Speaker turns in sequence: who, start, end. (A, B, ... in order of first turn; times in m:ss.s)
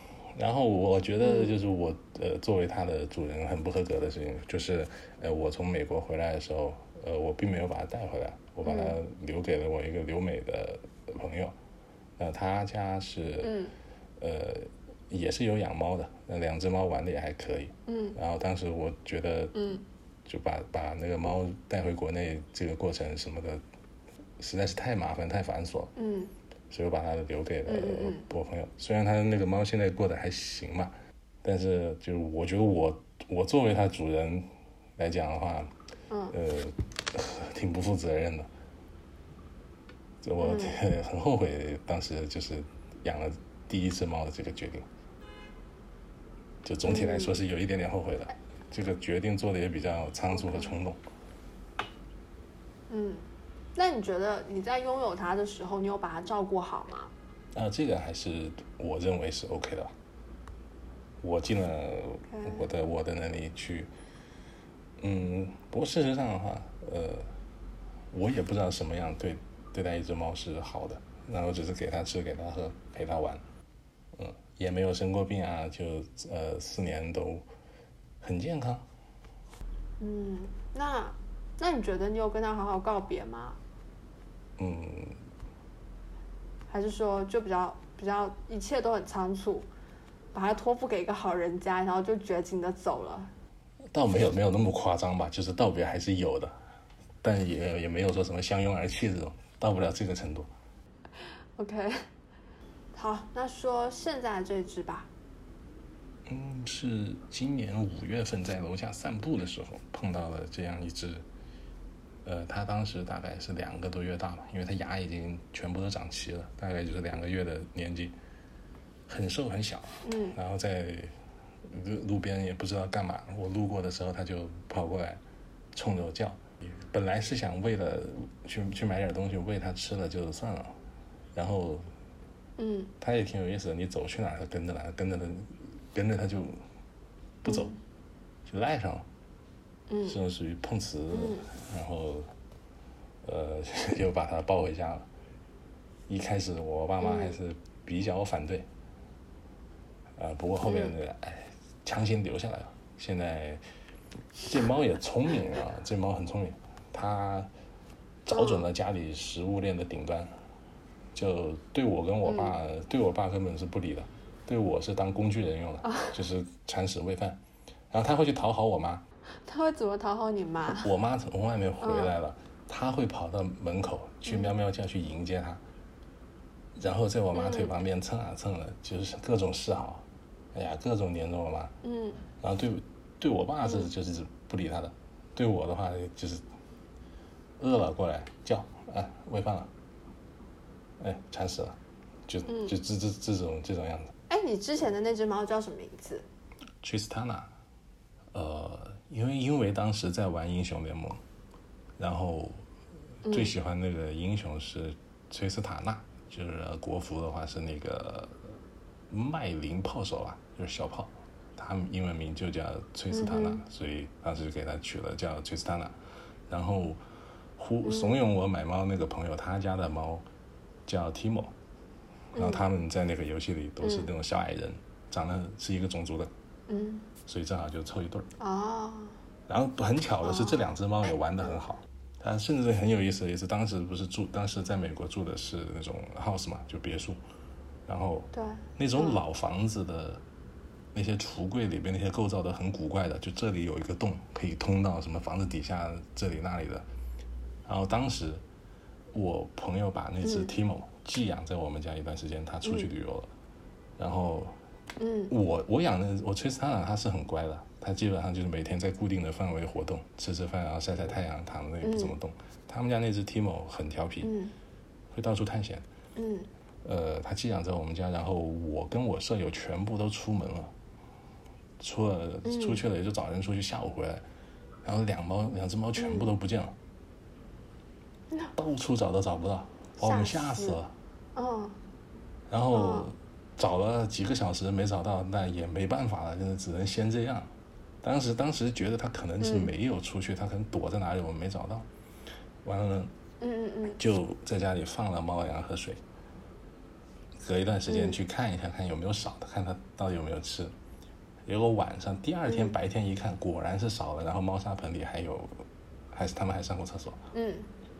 0:00.4-0:11.5 A
0:01.2-0:01.5 B
0:08.6-0:09.0 B
0:12.2-0:13.6 A
0:13.4-0:13.7 B
0:14.2-0:19.7 A
0:17.9-0:18.2 B
0:19.5-0:19.8 B
0:20.2-0:23.6 A
0:24.4-0:25.9 A
0:26.0-0:26.3 B
0:26.7-0:30.9 A
0:27.6-0:28.2 B
0:31.4-0:35.7 A
0:36.3-0:38.5 A
0:40.2-0:44.8 A
0:40.4-0:40.8 B
0:46.6-0:51.0 A
0:46.8-0:47.4 B
0:50.3-0:50.7 B
0:52.9-0:57.1 B
0:57.5-0:59.9 A
1:01.2-1:03.9 A
1:02.3-1:02.7 B
1:05.0-1:07.3 A
1:08.1-1:13.4 A
1:14.1-1:17.4 A
1:18.2-1:18.8 A
1:20.0-1:23.6 B
1:24.6-1:25.2 A
1:26.7-1:29.7 B
1:30.3-1:33.3 B
1:33.9-1:36.5 A
1:37.2-1:40.5 A
1:41.6-1:42.0 B
1:42.9-1:45.1 B
1:46.3-1:51.2 A
1:52.2-1:58.1 A
1:59.1-2:01.1 A
2:00.0-2:00.4 B
2:01.7-2:05.2 A
2:05.7-2:10.7 A
2:11.3-2:11.8 A
2:12.6-2:12.9 B
2:13.0-2:16.6 A
2:17.4-2:17.7 A
2:17.5-2:17.8 B
2:18.4-2:19.0 A
2:19.9-2:20.2 B
2:20.0-2:22.3 A
2:21.1-2:21.4 B
2:23.2-2:25.1 A
2:26.1-2:28.7 A
2:27.0-2:27.4 B
2:30.2-2:33.6 A
2:30.6-2:30.9 B
2:34.5-2:37.5 A
2:38.2-2:40.3 A
2:38.3-2:38.6 B
2:41.1-2:47.4 A
2:42.2-2:42.5 B
2:47.9-2:49.0 A
2:49.3-2:50.9 B
2:50.8-2:55.6 A
2:51.8-2:52.1 B
2:54.3-2:54.5 B
2:56.8-3:01.7 A
2:57.3-2:57.7 B
3:01.8-3:02.2 B
3:02.4-3:06.4 A
3:07.6-3:09.7 A
3:11.0-3:14.1 A
3:14.3-3:16.2 B
3:16.8-3:17.5 A
3:18.3-3:21.2 A
3:22.0-3:22.6 A
3:23.2-3:28.5 A
3:29.1-3:36.0 A
3:33.1-3:33.6 B
3:36.5-3:37.0 A
3:37.6-3:40.2 A
3:37.8-3:38.2 B
3:40.8-3:41.5 A
3:42.3-3:42.7 B
3:42.4-3:46.3 A
3:43.8-3:44.1 B
3:46.7-3:47.1 B
3:47.2-3:48.3 A
3:48.4-3:49.2 B
3:49.5-3:57.2 A
3:50.2-3:50.5 B
3:57.9-4:00.2 A
3:58.3-3:59.2 B
4:00.9-4:06.8 A
4:07.6-4:08.4 A
4:09.1-4:13.3 A
4:10.2-4:10.5 B
4:14.0-4:14.5 A
4:15.0-4:15.3 B
4:15.3-4:24.3 A
4:21.8-4:22.1 B
4:24.2-4:24.5 B
4:25.1-4:25.8 A
4:26.2-4:26.5 B
4:26.8-4:30.7 A
4:31.8-4:34.2 A
4:32.4-4:32.8 B
4:34.8-4:36.7 A
4:36.0-4:36.3 B
4:38.6-4:40.9 A
4:40.0-4:40.8 B
4:41.3-4:41.8 B
4:42.5-4:47.5 A
4:42.7-4:43.1 B
4:48.0-4:51.9 A
4:49.4-4:49.7 B
4:52.6-4:53.1 A
4:53.4-4:54.0 B
4:54.0-4:56.0 A
4:57.4-5:00.7 A
4:57.9-4:58.2 B
5:01.4-5:07.2 A
5:02.5-5:02.7 B
5:07.3-5:07.7 B